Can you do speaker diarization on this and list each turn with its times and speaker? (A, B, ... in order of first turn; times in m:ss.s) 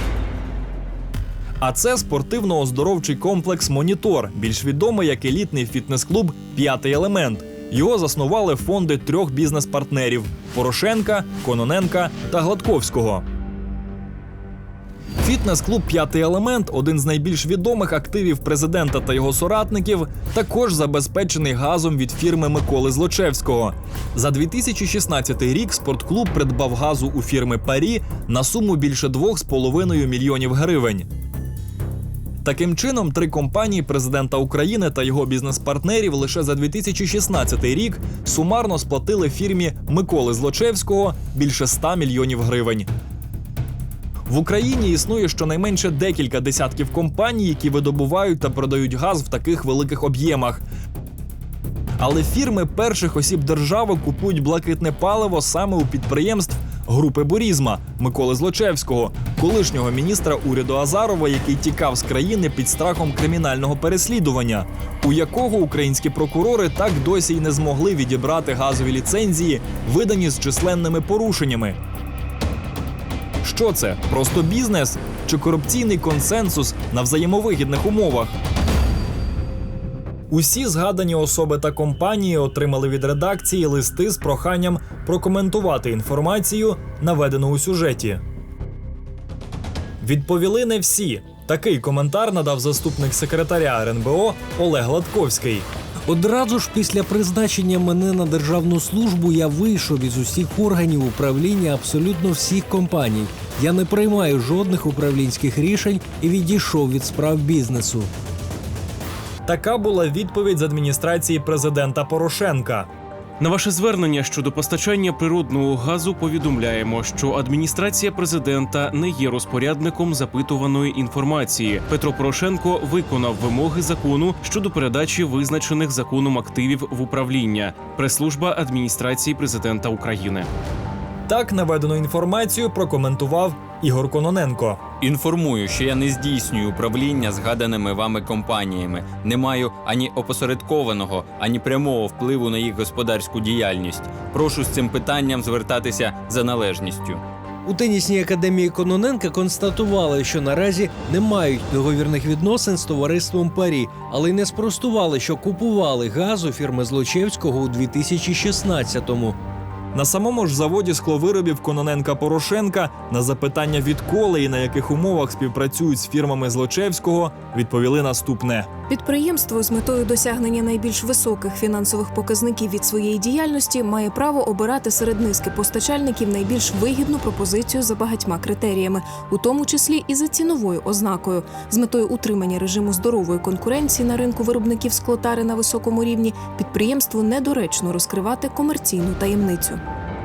0:01.6-0:13.2 A
0:15.2-0:31.1 A
0:32.4-0:42.9 A
0:44.3-0:50.6 A
0:52.0-1:11.8 A
1:13.4-1:18.4 A
1:20.3-1:28.2 A
1:30.0-1:35.7 A
1:36.1-1:48.1 B
1:49.4-1:52.9 A
1:53.4-2:10.5 C
2:11.3-2:14.8 A
2:15.0-2:27.2 D
2:27.7-2:39.4 B
2:39.9-2:48.7 A
2:48.9-3:09.8 E